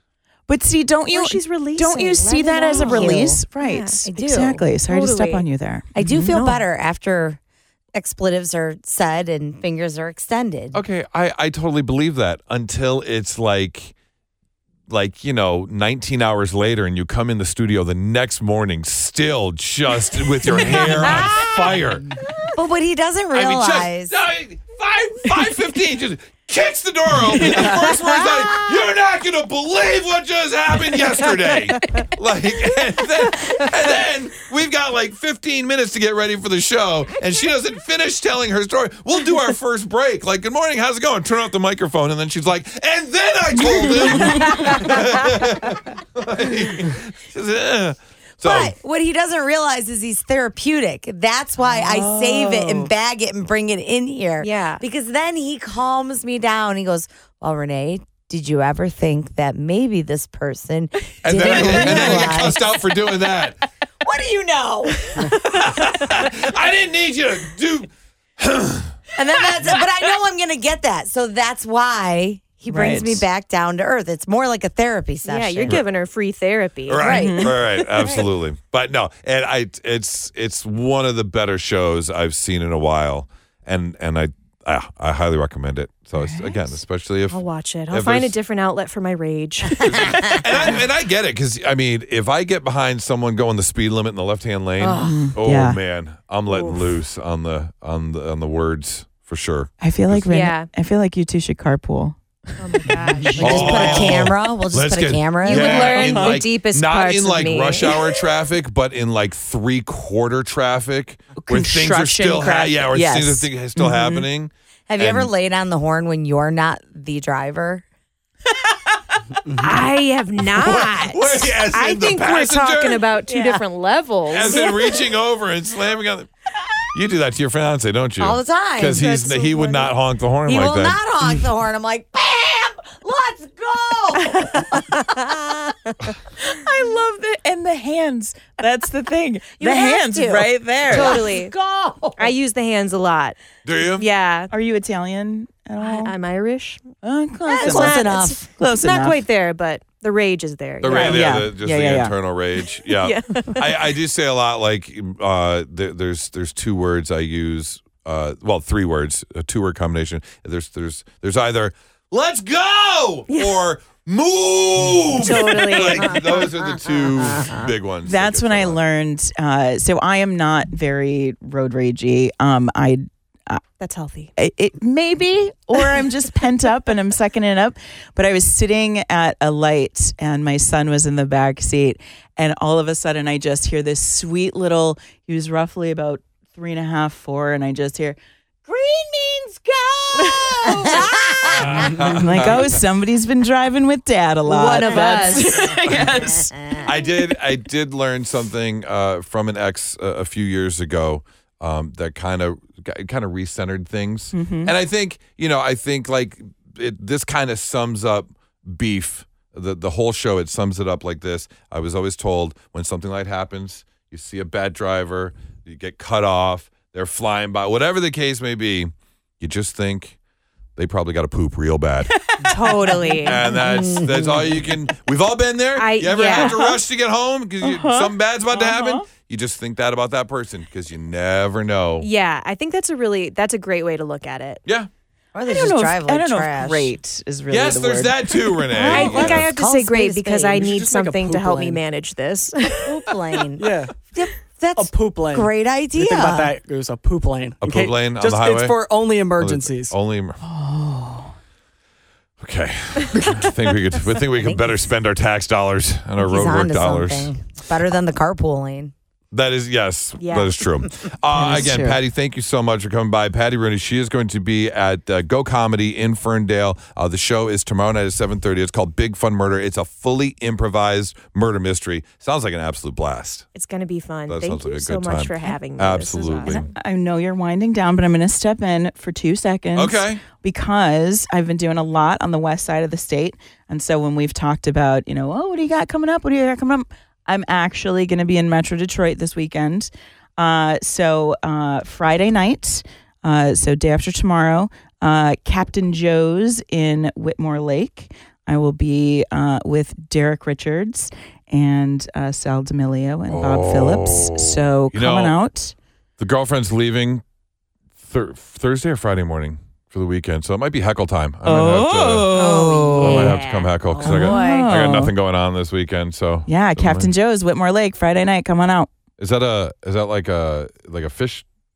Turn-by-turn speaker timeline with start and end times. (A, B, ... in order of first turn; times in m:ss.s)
0:00.5-0:06.4 A
0:01.1-0:05.5 B
0:02.7-0:03.4 C
0:04.1-0:04.6 C
0:06.0-0:07.4 C
0:06.3-0:06.6 B
0:07.9-0:10.8 C
0:10.7-0:13.9 D
0:14.9-0:22.1 D
0:20.7-0:21.3 C
0:22.5-0:24.1 C
0:23.3-0:48.7 D
0:44.2-0:45.0 B
0:44.2-0:44.6 A
0:48.4-1:02.7 C
0:51.7-0:52.9 A
0:54.4-0:54.8 B
1:01.2-1:03.6 D
1:01.4-1:02.2 A
1:04.0-1:05.4 C
1:05.4-1:09.0 D
1:09.2-1:15.8 C
1:12.7-1:13.2 A
1:15.3-1:18.3 B
1:16.9-1:27.4 D
1:17.0-1:17.6 C
1:17.1-1:17.5 A
1:26.1-1:26.6 A
1:27.3-1:30.7 B
1:27.9-1:28.3 D
1:29.8-1:40.3 D
1:30.0-1:30.3 C
1:34.8-1:35.3 C
1:35.0-1:35.8 A
1:36.5-1:37.0 B
1:39.8-1:42.2 A
1:40.3-1:40.7 B
1:42.6-1:44.3 B
1:42.7-1:43.3 A
1:43.3-1:46.2 C
1:43.4-1:55.3 D
1:45.4-1:48.1 B
1:46.0-1:46.4 A
1:51.4-1:54.3 A
1:54.9-1:57.8 C
1:59.6-2:05.0 B
2:00.6-2:03.0 D
2:03.3-2:03.6 C
2:04.3-2:06.3 D
2:04.6-2:04.9 C
2:06.9-2:11.0 D
2:08.2-2:09.9 C
2:10.4-2:16.0 C
2:14.3-2:14.8 B
2:16.4-2:21.2 A
2:19.6-2:22.3 C
2:20.9-2:21.5 B
2:22.2-2:23.4 B
2:23.6-2:24.1 D
2:23.9-2:24.5 B
2:24.5-2:26.1 A
2:25.8-2:26.9 B
2:27.0-2:29.2 A
2:27.5-2:28.5 C
2:27.5-2:31.4 B
2:30.8-2:48.8 D
2:30.9-2:32.1 A
2:32.9-2:34.0 B
2:43.3-2:43.6 B
2:45.1-2:46.4 B
2:46.3-2:47.7 C
2:48.1-2:53.6 A
2:53.8-2:54.3 B
2:54.4-3:08.9 A
3:08.7-3:11.9 C
3:10.4-3:11.2 B
3:10.4-3:11.2 A
3:11.5-3:12.7 D
3:11.9-3:16.5 A
3:14.5-3:16.0 B
3:15.9-3:16.9 C
3:16.8-3:40.2 D
3:24.3-3:24.7 A
3:40.8-3:42.1 D
3:42.1-3:43.5 A
3:42.5-3:43.4 B
3:43.2-3:52.1 D
3:43.5-3:44.7 C
3:45.8-3:46.6 B
3:46.2-3:46.8 A
3:47.6-3:49.1 A
3:52.0-3:54.6 B
3:55.3-3:56.9 C
3:55.5-3:59.3 A
3:57.5-3:59.5 D
3:58.8-4:03.1 B
3:58.9-4:00.7 C
4:00.6-4:01.8 E
4:02.8-4:06.5 C
4:03.6-4:03.9 E
4:04.8-4:10.0 E
4:07.6-4:08.8 D
4:09.4-4:10.4 D
4:10.4-4:11.3 A
4:12.4-4:17.3 D
4:14.3-4:14.8 C
4:16.2-4:18.9 C
4:19.3-4:33.5 D
4:20.2-4:20.6 B
4:21.3-4:22.0 A
4:33.6-4:36.7 B
4:34.3-4:36.7 D
4:36.5-5:05.8 A
4:39.8-4:40.2 D
5:03.3-5:05.4 D
5:06.2-5:07.2 D
5:08.0-5:12.3 D
5:11.4-5:13.4 A
5:12.3-5:13.4 C
5:12.4-5:13.7 B
5:13.0-5:17.1 D
5:14.0-5:14.7 C
5:14.0-5:15.1 A
5:16.5-5:18.9 A
5:19.2-5:21.4 D